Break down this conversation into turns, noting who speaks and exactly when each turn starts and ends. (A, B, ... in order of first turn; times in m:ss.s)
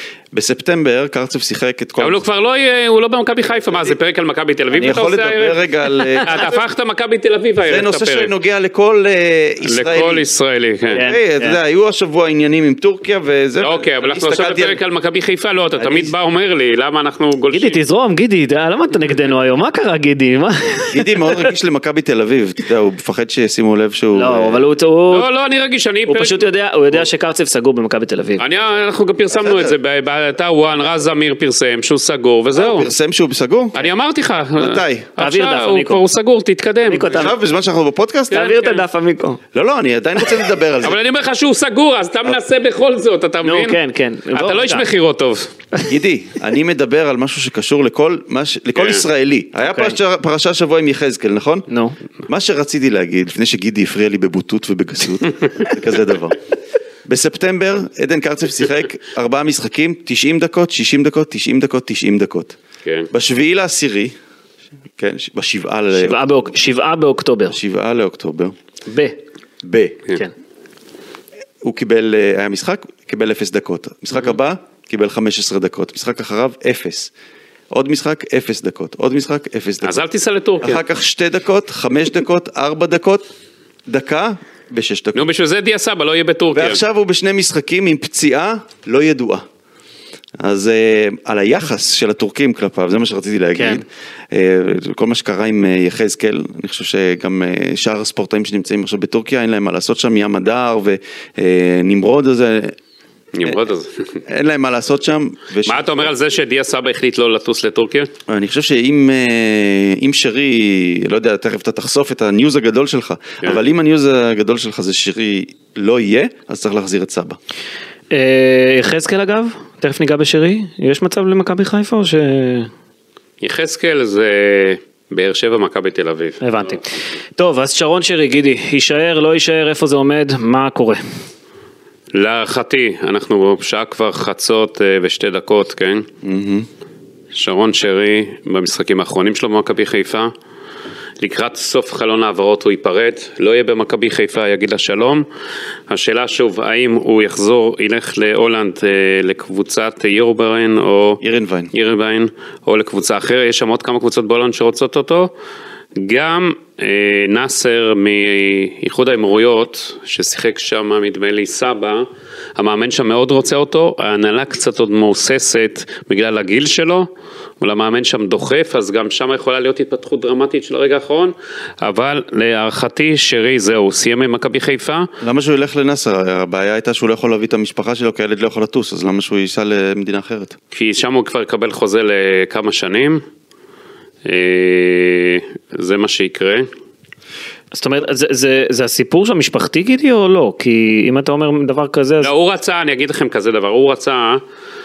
0:00.3-0:02.2 A
0:02.0-0:05.6 B
0:04.7-0:06.6 A
0:05.9-0:06.2 C
0:06.3-0:08.3 B
0:07.7-0:10.3 A
0:09.7-0:11.0 B
0:10.9-0:14.8 A
0:10.9-0:11.6 C
0:13.6-0:17.8 B
0:15.8-0:16.1 A
0:17.5-0:21.4 C
0:20.9-0:24.6 A
0:24.1-0:25.3 C
0:25.1-0:26.5 B
0:26.1-0:28.4 C
0:28.4-0:32.9 B
0:29.4-0:29.8 A
0:32.6-0:33.9 A
0:33.8-0:37.2 B
0:34.6-0:35.1 A
0:35.2-0:36.0 C
0:36.9-0:37.3 C
0:37.1-0:38.5 A
0:38.3-0:39.4 C
0:38.3-0:38.8 B
0:39.5-0:41.0 A
0:40.8-0:43.8 B
0:43.4-0:44.8 C
0:44.3-0:45.5 B
0:45.9-0:51.7 A
0:48.8-0:49.0 B
0:49.6-0:50.0 C
0:51.7-0:52.0 C
0:52.3-0:56.4 A
0:57.1-1:02.6 A
1:03.1-1:04.2 A
1:05.0-1:06.4 A
1:05.9-1:07.6 C
1:07.5-1:08.6 A
1:08.9-1:09.2 C
1:09.6-1:10.0 A
1:11.6-1:17.1 A
1:17.7-1:20.0 A
1:19.8-1:20.8 B
1:20.6-1:23.3 A
1:23.9-1:25.2 A
1:25.2-1:26.8 B
1:26.5-1:29.4 A
1:30.4-1:42.8 A
1:33.6-1:33.8 C
1:43.3-1:44.2 B
1:44.3-1:46.1 A
1:45.6-1:48.1 B
1:48.3-1:57.4 A
1:58.1-2:02.7 C
2:03.4-2:06.4 B
2:06.4-2:11.0 C
2:12.1-2:16.1 B
2:16.2-2:16.7 A
2:17.3-2:20.3 B
2:21.2-2:25.2 B
2:25.9-2:31.2 B
2:31.2-2:31.7 A
2:31.7-2:35.3 B
2:36.0-2:47.1 B
2:47.6-2:55.1 B
2:55.2-3:00.6 A
3:00.7-3:03.2 B
3:04.2-3:06.7 B
3:07.7-3:12.3 C
3:12.2-3:14.4 B